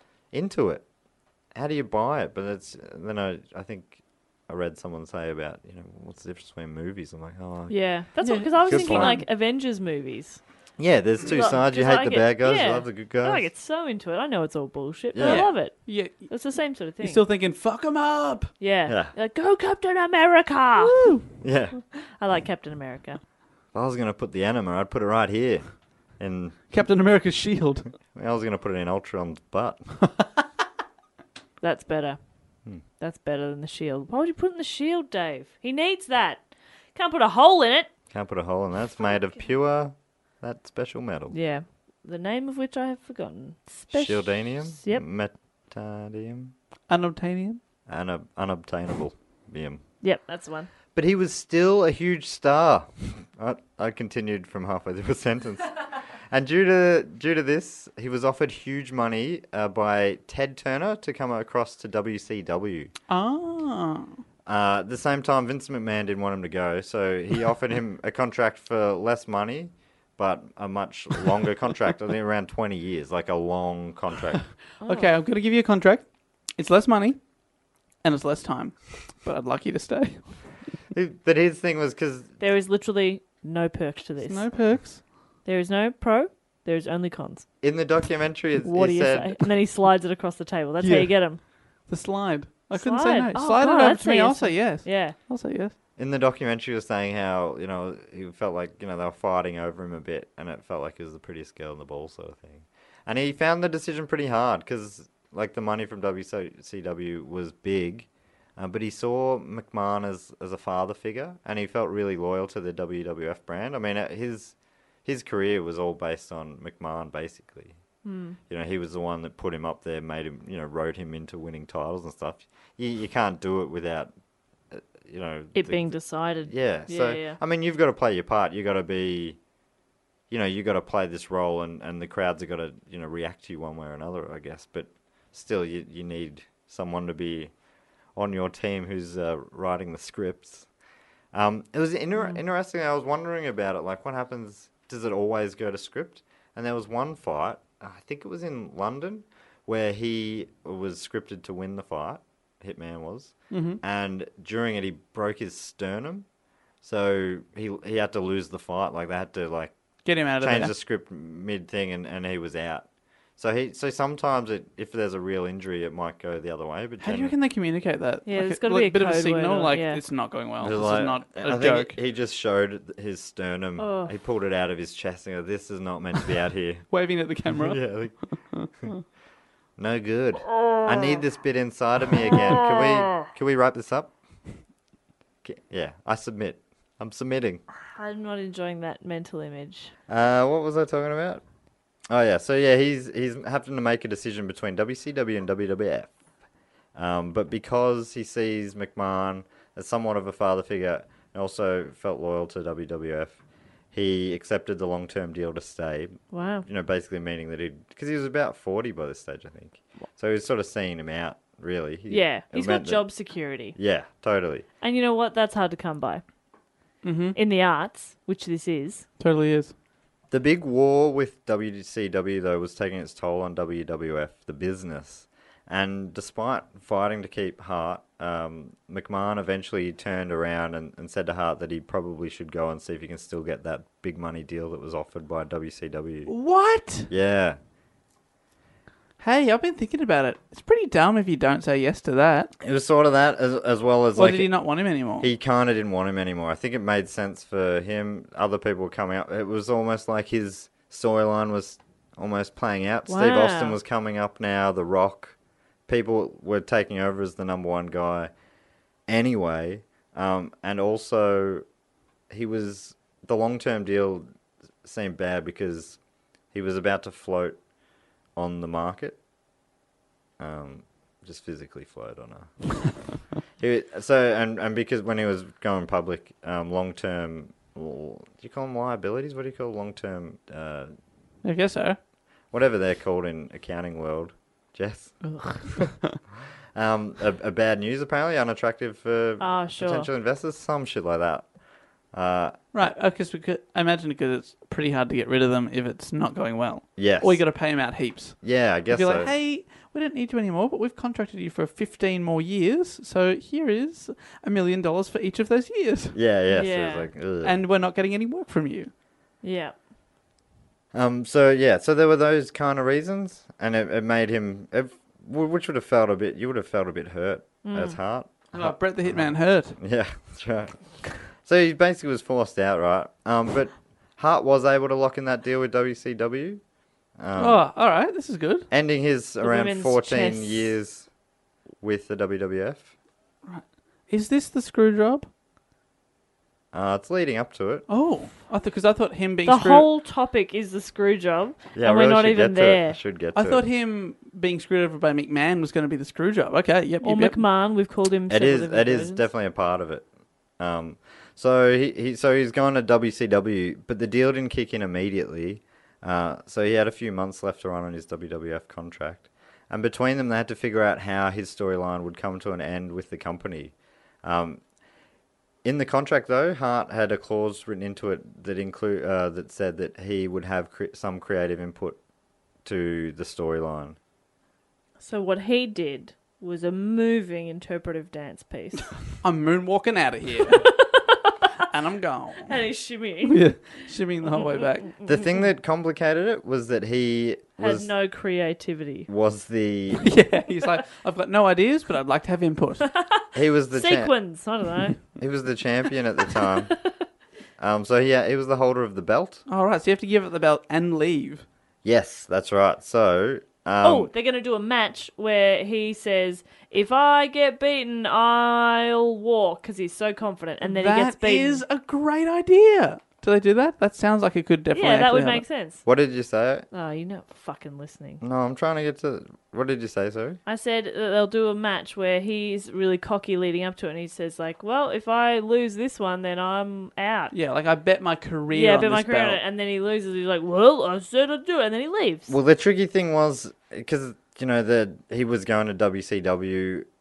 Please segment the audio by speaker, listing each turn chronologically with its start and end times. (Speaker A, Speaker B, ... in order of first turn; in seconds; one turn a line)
Speaker A: 0.3-0.8
Speaker A: 1.5-7.7
Speaker B: 7.7-10.4
Speaker C: 8.2-9.2
Speaker A: 8.7-9.2
Speaker A: 10.8-13.5
Speaker B: 11.3-17.2
Speaker A: 15.1-15.5
Speaker C: 15.2-16.3
Speaker C: 17.0-18.5
Speaker B: 18.6-21.1
Speaker A: 18.9-19.1
Speaker C: 20.8-21.2
Speaker A: 21.4-21.7
Speaker B: 21.9-23.2
Speaker A: 23.7-25.7
Speaker A: 26.2-26.7
Speaker C: 26.7-27.9
Speaker A: 28.1-29.8
Speaker B: 31.6-32.2
Speaker B: 33.0-37.9
Speaker A: 38.1-41.3
Speaker B: 41.3-45.0
Speaker A: 43.9-46.5
Speaker C: 46.9-47.6
Speaker A: 47.9-49.8
Speaker B: 50.0-50.7
Speaker A: 50.9-62.9
Speaker C: 63.1-64.2
Speaker A: 64.5-74.4
Speaker B: 74.8-75.1
Speaker C: 74.8-77.2
Speaker C: 78.0-80.4
Speaker A: 80.9-82.3
Speaker B: 82.4-84.5
Speaker C: 84.2-85.0
Speaker B: 85.4-87.5
Speaker A: 87.6-89.4
Speaker B: 88.6-91.4
Speaker C: 90.8-91.3
Speaker C: 91.8-95.7
Speaker B: 92.7-95.2
Speaker A: 96.0-114.5
Speaker A: 115.0-117.8
Speaker B: 118.0-118.4
Speaker A: 118.5-124.1
Speaker A: 124.7-125.9
Speaker B: 125.5-127.4
Speaker A: 126.5-129.4
Speaker A: 130.3-137.5
Speaker A: 138.1-140.7
Speaker A: 141.3-156.2
Speaker C: 153.5-153.8
Speaker A: 156.8-159.7
Speaker C: 160.0-160.7
Speaker A: 160.4-162.8
Speaker A: 163.4-167.3
Speaker C: 167.0-171.9
Speaker B: 168.2-170.0
Speaker A: 170.6-176.9
Speaker B: 173.8-174.1
Speaker C: 176.9-179.0
Speaker A: 177.5-178.2
Speaker A: 179.8-184.1
Speaker A: 185.4-187.6
Speaker B: 187.9-189.9
Speaker A: 190.1-191.4
Speaker A: 192.1-196.1
Speaker A: 196.9-203.3
Speaker A: 203.9-213.1
Speaker B: 206.3-206.7
Speaker B: 212.1-213.8
Speaker A: 213.7-214.6
Speaker B: 214.8-216.2
Speaker C: 217.0-217.4
Speaker B: 217.3-219.1
Speaker C: 219.2-219.7
Speaker A: 220.3-236.3
Speaker C: 236.3-237.1
Speaker A: 237.1-237.6
Speaker C: 239.2-242.5
Speaker A: 242.6-244.5
Speaker C: 244.2-245.3
Speaker A: 245.2-255.3
Speaker B: 253.1-253.8
Speaker A: 255.9-258.3
Speaker A: 259.1-261.6
Speaker A: 262.3-264.3
Speaker A: 264.8-266.0
Speaker A: 266.5-267.6
Speaker A: 268.4-269.2
Speaker A: 270.4-272.5
Speaker A: 273.6-280.9
Speaker C: 281.4-282.0
Speaker A: 282.5-285.2
Speaker C: 285.2-286.1
Speaker A: 286.7-291.5
Speaker B: 289.4-290.1
Speaker A: 292.1-292.6
Speaker C: 292.7-306.1
Speaker A: 297.0-297.4
Speaker A: 298.4-299.3
Speaker A: 306.1-307.5
Speaker B: 306.5-307.1
Speaker C: 307.4-308.9
Speaker B: 309.4-309.7
Speaker A: 310.9-326.6
Speaker B: 317.6-318.0
Speaker C: 318.5-319.8
Speaker A: 327.2-327.6
Speaker C: 327.4-328.7
Speaker A: 328.7-331.1
Speaker B: 329.4-330.7
Speaker A: 331.8-332.9
Speaker C: 333.4-335.3
Speaker A: 336.7-337.8
Speaker C: 337.9-339.9
Speaker B: 339.4-343.0
Speaker A: 341.7-343.6
Speaker C: 343.3-347.4
Speaker B: 347.0-349.3
Speaker A: 348.3-350.0
Speaker A: 350.6-364.6
Speaker A: 365.6-372.0
Speaker A: 372.6-374.0
Speaker B: 375.0-378.9
Speaker C: 379.2-380.7
Speaker B: 380.5-381.3
Speaker C: 381.7-382.5
Speaker B: 382.4-383.6
Speaker C: 383.2-384.9
Speaker B: 384.3-385.2
Speaker A: 385.0-387.9
Speaker B: 387.6-389.1
Speaker A: 389.1-390.0
Speaker C: 390.0-392.9
Speaker B: 392.9-395.0
Speaker A: 393.3-394.1
Speaker A: 395.2-396.7
Speaker B: 396.3-396.7
Speaker A: 397.6-399.4
Speaker C: 399.5-401.4
Speaker A: 401.8-404.1
Speaker B: 403.8-411.6
Speaker C: 410.6-415.4
Speaker B: 414.7-415.8
Speaker A: 415.8-416.6
Speaker B: 416.7-418.2
Speaker A: 418.2-420.4
Speaker B: 420.4-427.3
Speaker C: 427.3-429.4
Speaker B: 428.5-432.3
Speaker A: 432.3-436.9